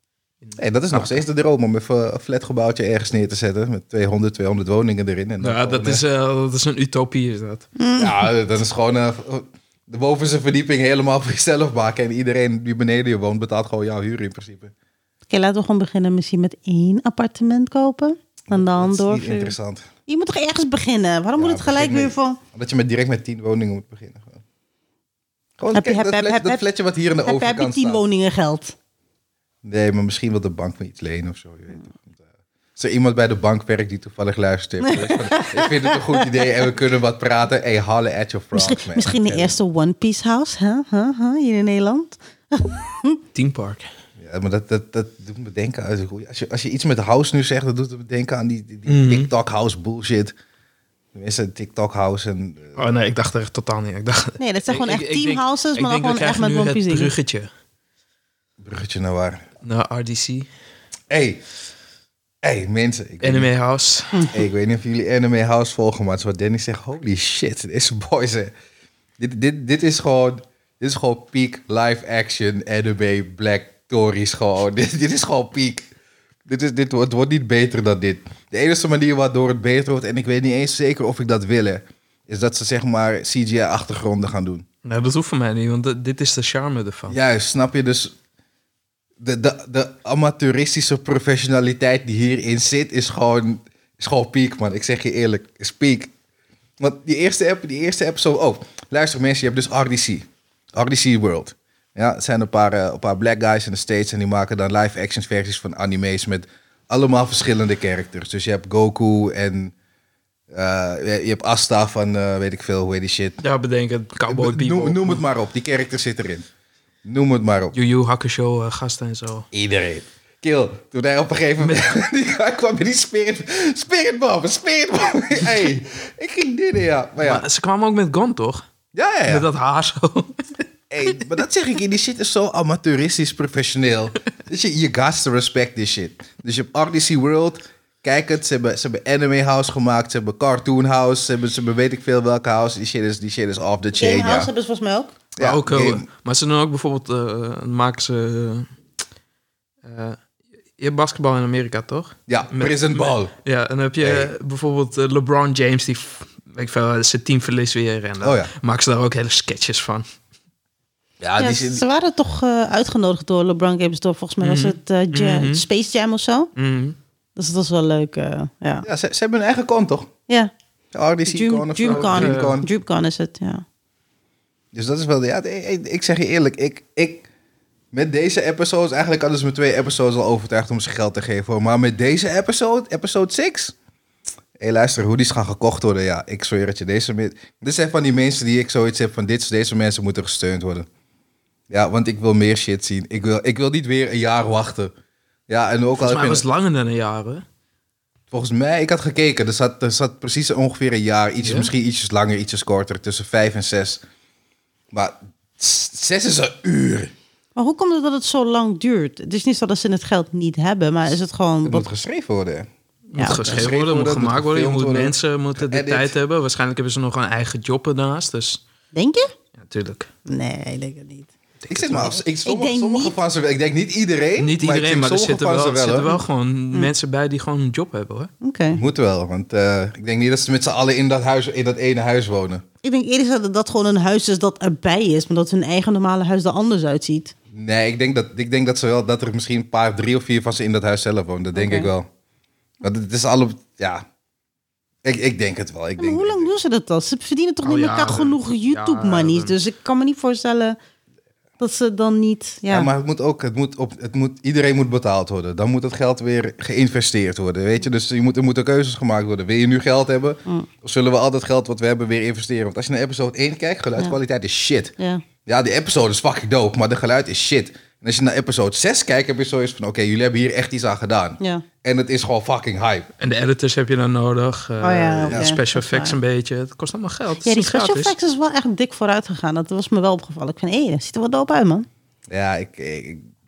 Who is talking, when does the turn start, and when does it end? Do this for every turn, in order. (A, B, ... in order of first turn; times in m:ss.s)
0:00.4-0:01.2 A
0:00.6-0:06.0 B
0:05.4-0:07.7 A
0:07.8-0:08.2 C
0:08.0-0:14.7 B
0:15.3-0:19.6 C
0:18.5-0:19.9 B
0:20.1-0:22.4 C
0:21.4-0:24.4 B
0:25.6-0:28.0 B
0:25.7-0:26.6 C
0:27.3-0:28.8 C
0:29.6-0:32.2 B
0:32.8-0:39.5 B
0:34.8-0:36.7 C
0:38.5-0:43.2 C
0:43.3-0:43.9 A
0:44.2-0:50.3 B
0:48.9-0:49.3 A
0:51.1-0:52.8 B
0:52.8-0:57.5 A
0:54.4-0:57.1 C
0:58.6-0:59.4 B
0:59.6-1:00.5 A
1:01.1-1:01.4 B
1:02.4-1:03.5 B
1:03.2-1:04.3 A
1:04.3-1:08.5 B
1:09.2-1:15.9 B
1:16.5-1:24.6 B
1:24.8-1:27.2 A
1:27.1-1:28.2 B
1:29.2-1:36.1 B
1:36.8-1:49.7 B
1:50.5-1:53.4 B
1:53.4-1:55.2 A
1:54.3-1:56.5 B
1:57.0-1:57.8 B
1:57.7-1:59.5 A
1:59.5-2:07.4 B
2:01.6-2:01.9 A
2:07.2-2:08.6 A
2:08.9-2:09.5 B
2:09.3-2:10.4 A
2:10.9-2:24.5 B
2:24.0-2:25.2 C
2:25.4-2:26.1 B
2:25.4-2:28.7 A
2:29.8-2:30.2 A
2:30.8-2:40.0 A
2:32.3-2:33.3 B
2:34.0-2:34.3 B
2:38.2-2:38.5 B
2:41.2-2:41.8 B
2:41.4-2:46.5 C
2:44.4-2:45.6 A
2:46.6-2:47.0 A
2:47.4-2:48.9 C
2:48.8-2:50.1 B
2:50.9-2:52.7 B
2:51.3-2:53.6 C
2:51.8-2:52.6 A
2:54.7-2:57.3 B
2:57.9-3:03.7 B
3:04.6-3:10.9 B
3:11.7-3:14.9 B
3:15.5-3:16.4 B
3:16.0-3:17.4 A
3:18.3-3:24.0 B
3:21.4-3:21.7 A
3:24.9-3:27.1 B
3:27.6-3:31.9 C
3:31.6-3:32.7 B
3:33.1-3:38.6 A
3:33.2-3:33.7 C
3:33.2-3:36.1 B
3:38.9-3:39.3 C
3:39.6-3:40.1 A
3:40.3-3:41.3 C
3:41.6-3:42.2 A
3:41.7-3:46.1 B
3:42.0-3:43.2 C
3:44.4-3:48.3 A
3:48.4-3:48.8 C
3:48.7-3:52.6 B
3:52.8-3:57.3 C
3:57.5-4:02.1 B
4:01.5-4:01.9 C
4:02.8-4:04.0 B
4:05.0-4:06.5 B
4:06.0-4:10.8 C
4:07.6-4:09.6 A
4:11.6-4:12.9 C
4:12.7-4:33.1 B
4:25.0-4:25.2 C
4:31.4-4:31.6 C
4:33.2-4:38.1 A
4:34.8-4:36.2 C
4:35.3-4:35.6 B
4:37.4-4:41.9 C
4:42.3-4:43.3 B